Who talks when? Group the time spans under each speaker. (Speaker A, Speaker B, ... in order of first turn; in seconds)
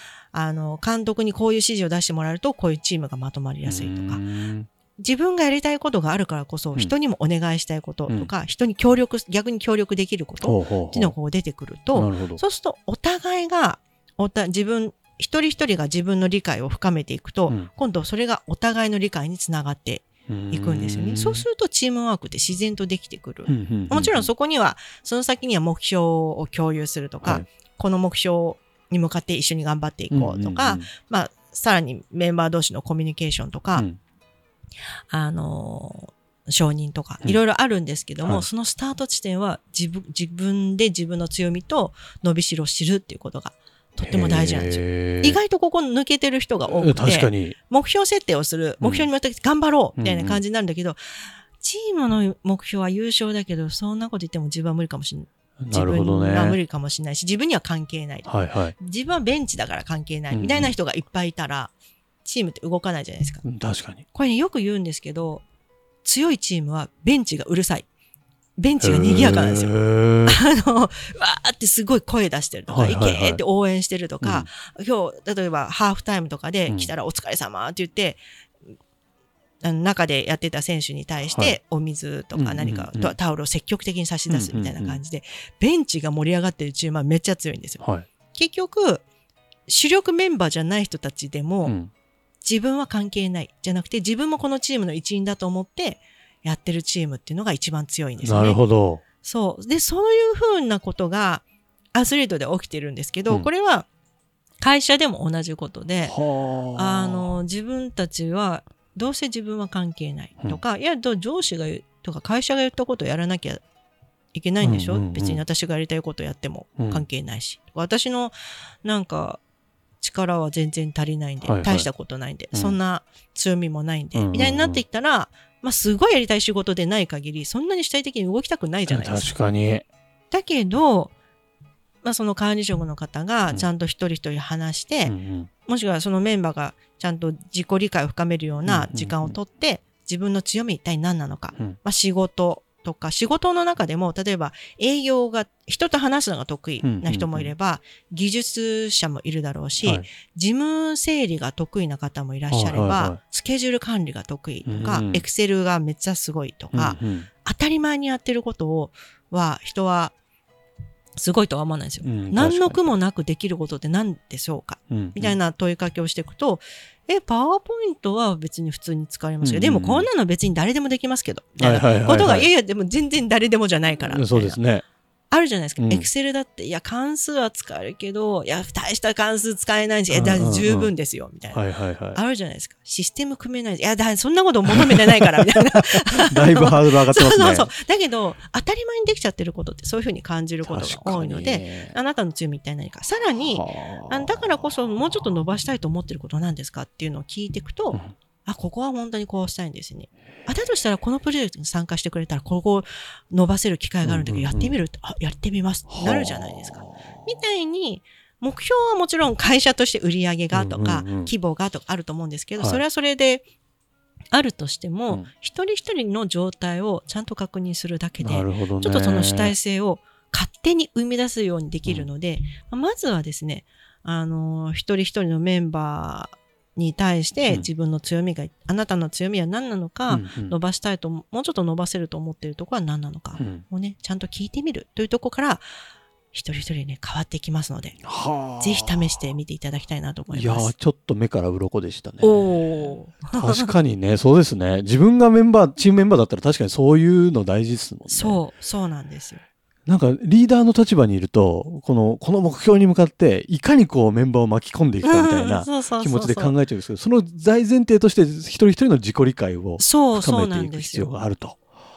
Speaker A: 0.3-4.2, 5.0-33.9, 35.1-51.0, 51.6-61.7, 62.2-63.5, 64.1-65.5, 66.0-67.9, 68.6-78.2, 79.6-89.0, 89.7-91.8, 92.4-98.6, 99.2-103.9, 104.6-106.2, 106.7-113.6, 114.3-119.4, 120.0-129.4, 130.3-131.1, 132.0-160.2, 161.2-174.6, 175.3-213.4, 214.3-235.7, 236.3-240.8, 242.2-243.7, 248.1-249.4, 255.0-256.6, 259.8-261.1
Speaker B: 3.6-4.7, 10.4-11.2, 11.9-12.4, 20.3-21.4, 23.5-24.3, 30.1-30.9, 44.0-45.4, 46.7-47.5, 48.8-49.1, 50.0-50.4, 55.6-56.6, 58.2-58.8, 60.3-60.7, 63.4-64.0, 68.8-70.4, 72.7-73.4, 74.2-74.5, 81.3-81.6, 82.3-83.2, 84.3-85.0, 87.8-88.1, 91.7-91.9, 98.2-99.0, 106.0-107.3, 114.6-115.4, 116.8-117.0, 121.4-121.9, 124.2-124.8, 128.9-129.9, 135.1-135.5, 138.7-139.4, 146.8-147.5, 149.8-150.1, 152.5-153.2, 154.7-155.2, 156.7-157.3, 162.0-162.8, 164.9-165.4, 169.4-170.1, 171.6-172.5, 174.1-174.8, 175.8-176.1, 180.1-180.9, 181.5-182.2, 185.8-187.7, 190.6-191.9, 193.4-194.4, 204.0-204.8, 205.9-207.0, 210.5-211.3, 218.2-219.5, 230.1-230.6, 233.4-233.6, 238.0-239.0, 240.3-248.4, 249.9-261.6